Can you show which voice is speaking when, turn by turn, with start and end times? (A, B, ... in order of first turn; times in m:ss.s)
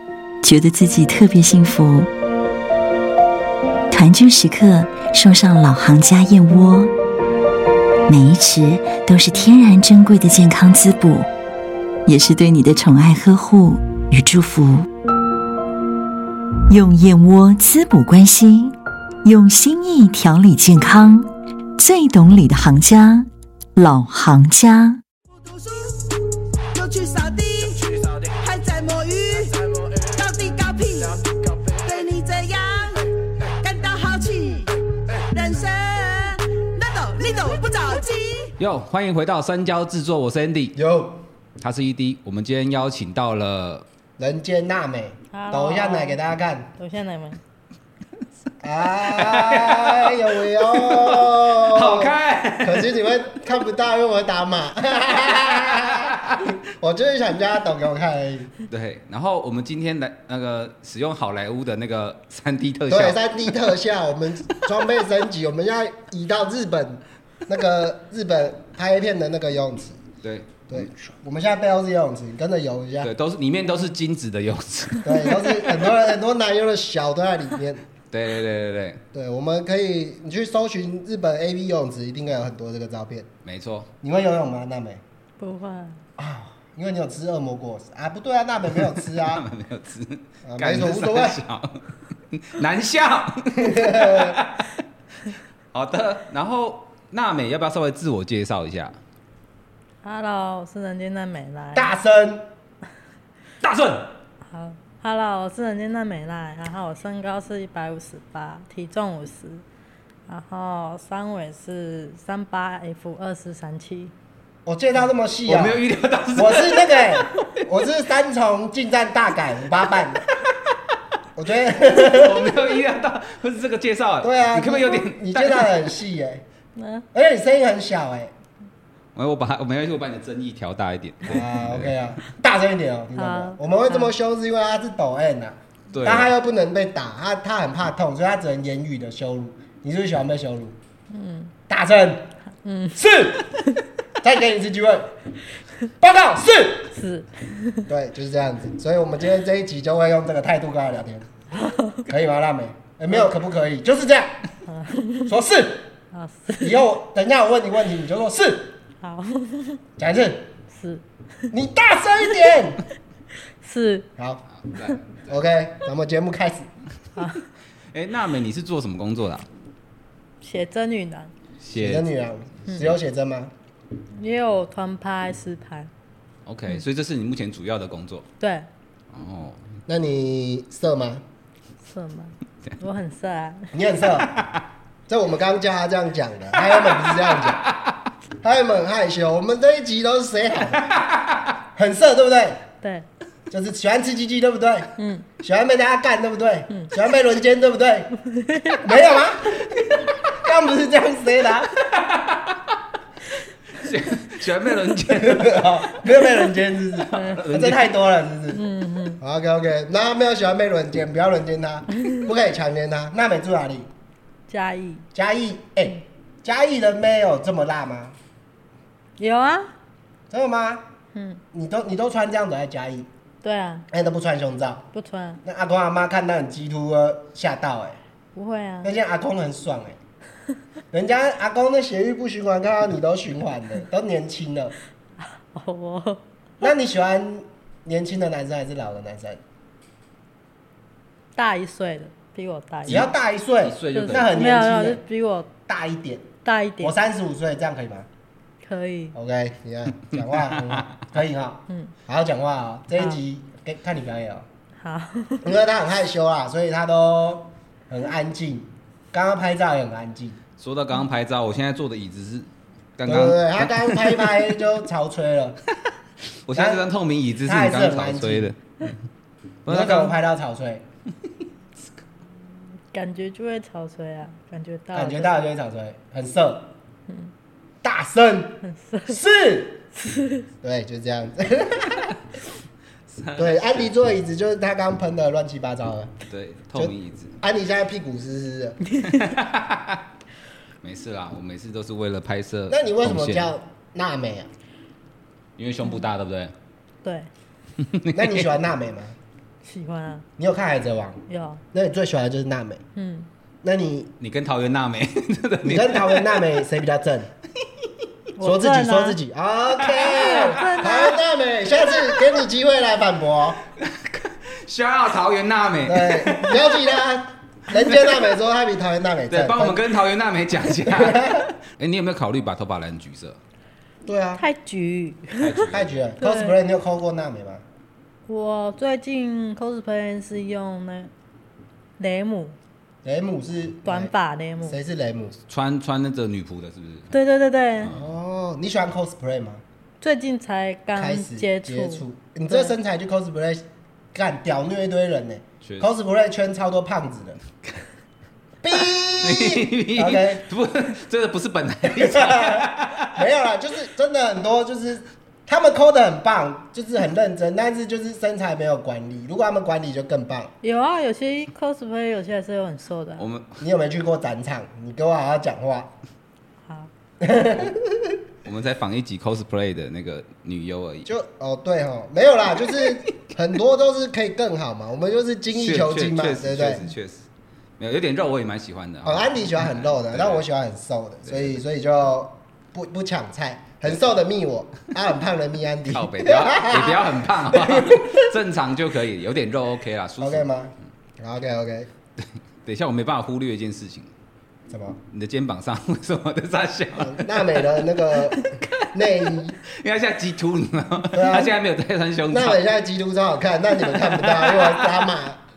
0:00.4-0:02.1 A
0:03.9-0:06.9 A
0:08.1-0:11.3 A
0:12.0-0:14.9 A
0:16.7-0:25.0 A
0:25.4-0:38.5 B
0:38.6-0:40.7 C
0:40.7-0:41.2 D
0:41.6-0:43.8 C
0:44.2-0:46.7 D
0:45.3-0:46.2 E
0:46.8-0:47.4 E
0:48.6-0:58.5 D
0:49.1-0:52.9 C
0:55.2-0:56.6 C
0:58.7-1:03.2 C
1:02.9-1:10.0 D
1:10.2-1:10.9 C
1:10.7-1:13.1 D
1:13.0-1:15.9 C
1:15.0-1:17.8 D
1:18.1-1:19.0 C
1:19.1-1:23.3 D
1:23.4-1:23.9 C
1:24.0-1:25.0 D
1:25.4-1:26.0 E
1:26.2-1:29.4 D
1:28.9-1:34.8 C
1:30.4-1:31.4 D
1:33.6-1:34.4 D
1:35.7-1:39.0 C
1:40.0-1:41.9 E
1:41.7-1:42.5 D
1:43.6-1:44.1 C
1:44.5-1:49.6 E
1:50.3-1:54.1 E
1:54.6-1:55.8 D
1:55.5-1:57.6 C
1:56.3-2:00.2 D
2:00.2-2:00.7 C
2:01.4-2:02.6 D
2:01.8-2:05.8 C
2:04.2-2:06.4 D
2:06.8-2:07.0 E
2:07.1-2:08.3 D
2:09.2-2:12.0 C
2:11.2-2:20.8 D
2:13.2-2:14.1 E
2:15.9-2:16.3 C
2:21.1-2:21.5 E
2:21.7-2:22.3 D
2:22.6-2:23.0 E
2:23.0-2:23.5 D
2:24.2-2:25.1 D
2:26.0-2:26.9 D
2:26.9-2:27.8 E
2:27.9-2:31.3 D
2:31.6-2:32.1 E
2:32.1-2:34.3 D
2:34.6-2:35.3 E
2:35.3-2:35.9 D
2:36.1-2:36.8 E
2:36.6-2:38.8 D
2:39.0-2:39.8 E
2:40.0-2:40.5 D
2:40.7-2:41.5 E
2:41.5-2:42.8 D
2:43.6-2:44.1 E
2:44.2-2:44.4 D
2:44.6-2:45.2 C
2:45.1-2:46.7 D
2:47.2-2:47.4 E
2:47.9-2:49.5 C
2:50.4-2:51.3 E
2:51.6-2:52.1 C
2:51.7-2:53.5 D
2:54.1-2:55.9 E
2:56.4-2:58.2 C
2:58.4-2:58.7 E
2:59.1-2:59.6 C
2:59.9-3:01.2 D
3:01.8-3:03.7 E
3:03.7-3:04.4 D
3:04.2-3:04.6 C
3:05.1-3:07.6 D
3:06.6-3:07.9 C
3:08.4-3:11.0 D
3:10.8-3:11.5 C
3:11.8-3:12.6 D
3:12.8-3:13.0 E
3:13.5-3:18.1 D
3:15.0-3:15.3 E
3:18.2-3:18.8 E
3:18.7-3:19.8 D
3:20.3-3:21.8 D
3:21.8-3:22.8 C
3:23.7-3:25.7 C
3:25.1-3:28.6 D
3:26.0-3:26.4 E
3:27.1-3:27.9 C
3:27.1-3:27.4 E
3:28.5-3:29.2 E
3:29.2-3:33.9 D
3:34.5-3:35.0 E
3:35.1-3:38.2 D
3:39.2-3:39.7 E
3:40.3-3:40.8 D
3:41.1-3:41.4 E
3:41.5-3:43.1 D
3:43.4-3:43.8 E
3:43.9-3:44.8 D
3:44.9-3:45.4 E
3:45.4-3:48.0 D
3:48.3-3:48.9 E
3:48.8-3:50.0 D
3:50.9-3:54.7 D
3:55.2-3:56.2 E
3:56.6-3:59.4 D
4:01.4-4:03.1 E
4:02.8-4:05.0 D
4:03.6-4:04.3 C
4:03.9-4:05.5 E
4:05.7-4:06.3 D
4:06.4-4:06.9 E
4:06.8-4:08.1 D
4:08.6-4:09.2 E
4:09.1-4:14.4 D
4:10.4-4:10.9 C
4:14.8-4:15.4 E
4:15.4-4:20.4 D
4:20.6-4:24.4 C
4:23.0-4:25.6 D
4:26.4-4:28.9 C
4:26.5-4:26.8 D
4:27.4-4:28.5 D
4:29.6-4:30.2 C
4:29.7-4:30.8 D
4:32.9-4:35.4 E
4:34.9-4:36.7 D
4:37.8-4:39.8 D
4:38.6-4:39.2 E
4:39.9-4:40.5 E
4:40.6-4:42.2 D
4:43.1-4:43.9 C
4:43.4-4:46.1 D
4:46.3-4:47.4 C
4:46.7-4:48.8 D
4:48.9-4:49.3 E
4:49.1-4:50.0 C
4:50.8-4:53.5 C
4:52.7-4:54.5 D
4:55.6-4:56.5 C
4:57.0-4:57.3 E
4:57.8-4:58.4 C
4:58.1-4:59.2 D
4:59.6-5:00.2 E
5:00.4-5:02.8 D
5:01.3-5:01.6 E
5:02.9-5:03.3 E
5:03.6-5:04.1 D
5:04.2-5:06.4 C
5:05.6-5:07.3 D
5:08.4-5:09.2 E
5:08.4-5:13.6 D
5:09.9-5:10.8 C
5:10.0-5:11.2 E
5:13.8-5:16.8 C
5:15.8-5:19.8 D
5:17.7-5:18.2 C
5:19.3-5:23.4 C
5:20.8-5:21.4 D
5:24.0-5:24.4 D
5:24.4-5:25.6 E
5:25.3-5:26.0 C
5:25.7-5:27.6 D
5:26.2-5:26.6 E
5:28.3-5:31.1 E
5:32.0-5:32.6 E
5:33.0-5:35.4 D
5:33.8-5:34.8 E
5:35.5-5:37.1 C
5:37.1-5:37.9 E
5:37.8-5:38.1 C
5:37.9-5:39.6 D
5:40.0-5:42.7 E
5:40.9-5:47.4 D
5:48.6-5:50.4 D
5:49.2-5:53.3 C
5:51.9-6:00.5 D
6:00.6-6:03.2 E
6:03.2-6:03.6 C
6:03.6-6:05.9 D
6:06.6-6:06.9 E
6:07.2-6:08.2 D
6:08.4-6:11.1 C
6:11.0-6:16.8 D
6:15.5-6:17.2 C
6:17.8-6:20.4 C
6:19.0-6:28.3 D
6:21.3-6:21.5 C
6:25.9-6:30.4 C
6:30.2-6:31.9 D
6:32.6-6:34.1 C
6:34.7-6:35.0 D
6:35.1-6:42.6 C
6:37.0-6:39.6 D
6:41.1-6:41.5 D
6:42.3-6:45.4 D
6:43.9-6:45.1 C